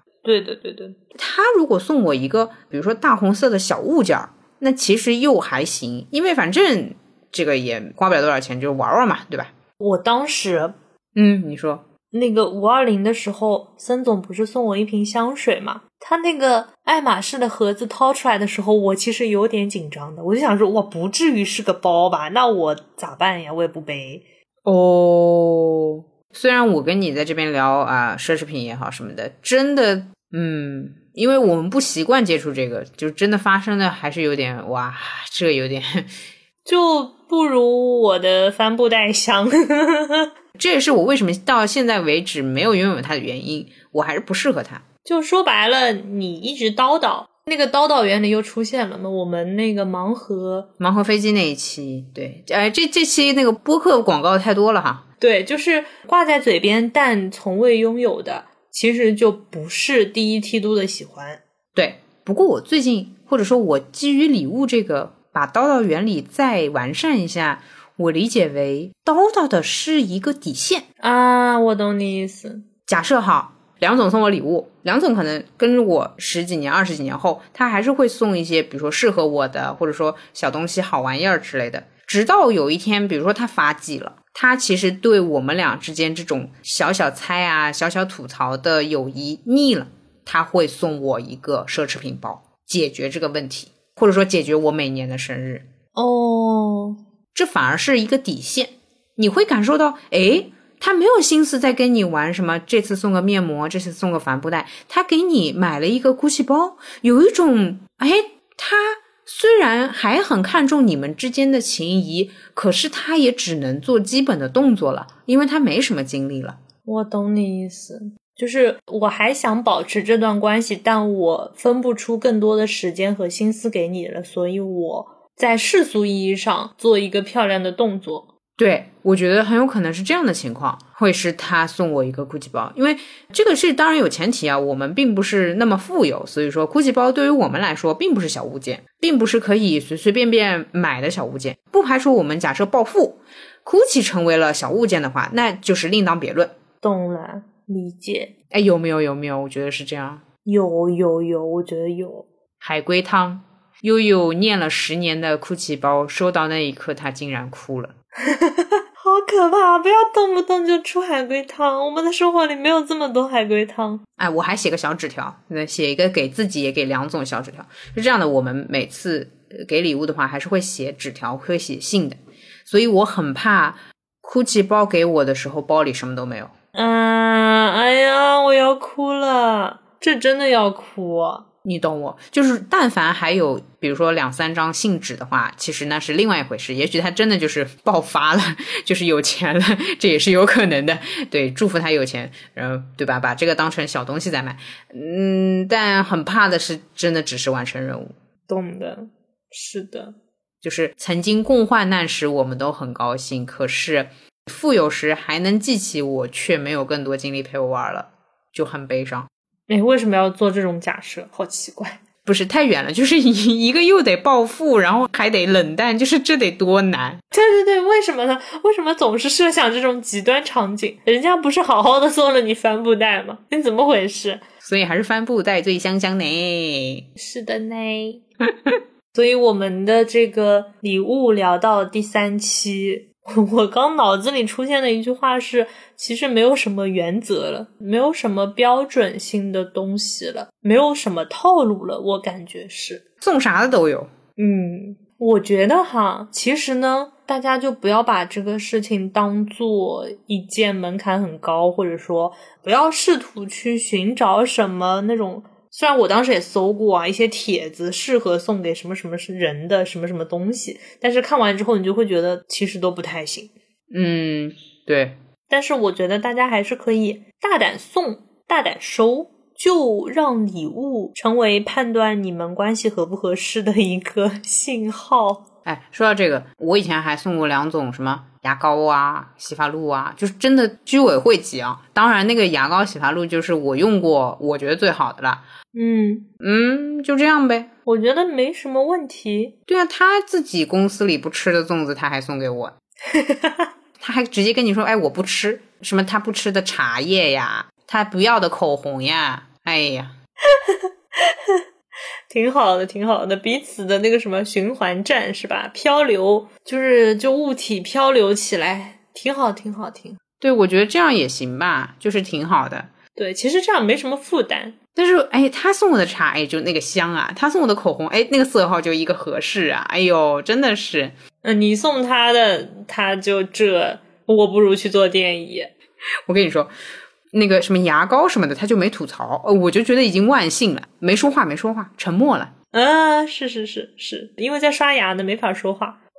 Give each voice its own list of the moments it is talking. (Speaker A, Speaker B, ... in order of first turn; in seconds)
Speaker A: 0.2-0.9, 9.8-10.7, 12.1-24.2, 36.6-40.3, 45.0-50.7, 55.2-61.4, 71.0-72.6, 95.9-97.0, 116.8-128.3, 146.8-148.3, 150.4-152.2, 158.2-164.0, 176.7-181.4, 198.5-200.1, 209.7-212.0, 217.3-224.4, 227.2-228.2, 229.1-243.0, 244.4-263.5, 265.5-275.4, 285.7-286.3, 287.9-289.5, 293.1-293.7, 300.4-301.6, 302.3-310.2, 313.1-314.8, 321.4-325.7, 332.7-336.0
Speaker B: 1.1-9.5, 11.1-11.8, 24.6-36.1, 40.5-44.8, 50.8-55.0, 61.7-70.8, 72.9-95.7, 97.3-116.6, 128.6-146.5, 148.5-150.2, 152.6-157.9, 164.2-176.5, 181.6-198.1, 200.6-209.3, 212.2-217.2, 224.6-227.1, 243.2-244.1, 263.9-265.2, 275.6-285.4, 286.4-287.7, 289.7-292.7, 294.0-300.1, 310.4-312.9, 314.9-321.1, 326.2-326.7, 327.3-332.5